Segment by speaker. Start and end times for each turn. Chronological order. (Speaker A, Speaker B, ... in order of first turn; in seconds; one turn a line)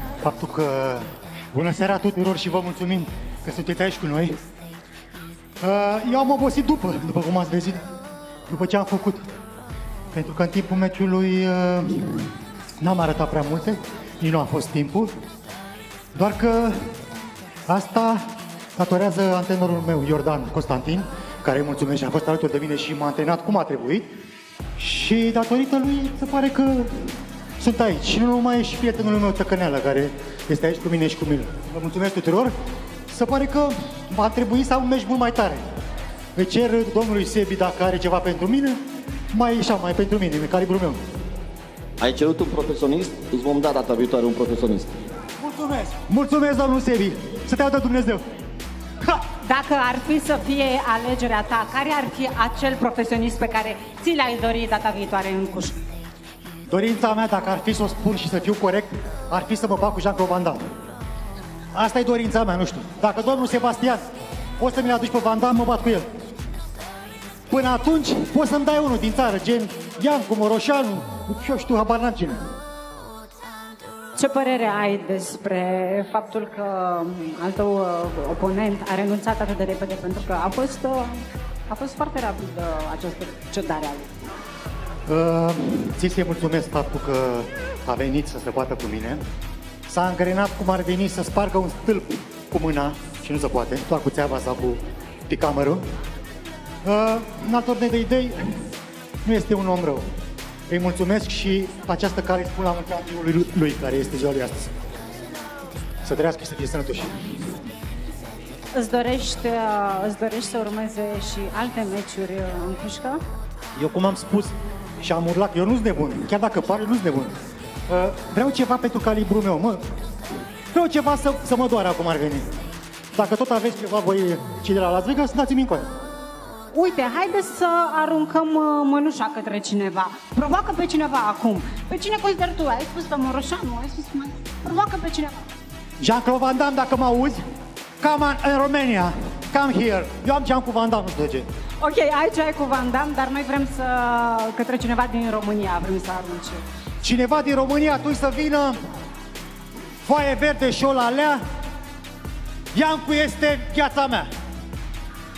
Speaker A: 0.2-4.4
Speaker A: 5.6-7.8
Speaker A: 8.5-9.2
Speaker A: 10.1-15.1
Speaker A: 16.1-16.8
Speaker A: 17.7-18.2
Speaker A: 18.8-24.1
Speaker A: 24.8-32.5
Speaker A: 33.1-35.6
Speaker A: 36.4-38.8
Speaker A: 39.3-41.0
Speaker B: 42.0-44.9
Speaker A: 45.4-48.2
Speaker C: 49.3-55.8
Speaker A: 56.7-60.6
Speaker A: 61.7-64.0
Speaker A: 64.6-66.1
Speaker A: 67.5-72.4
Speaker C: 74.2-84.1
Speaker A: 85.1-89.2
Speaker A: 89.9-95.8
Speaker A: 96.8-98.6
Speaker A: 99.2-100.1
Speaker A: 100.7-104.7
Speaker A: 106.0-107.3
Speaker C: 108.7-113.2
Speaker A: 113.8-117.3
Speaker A: 117.9-119.8
Speaker A: 120.7-122.5
Speaker A: 123.1-125.9
Speaker C: 126.7-135.4
Speaker A: 136.0-137.4
Speaker A: 138.0-141.5
Speaker C: 141.8-146.6
Speaker A: 147.0-148.8
Speaker A: 150.1-151.4
Speaker A: 152.7-154.3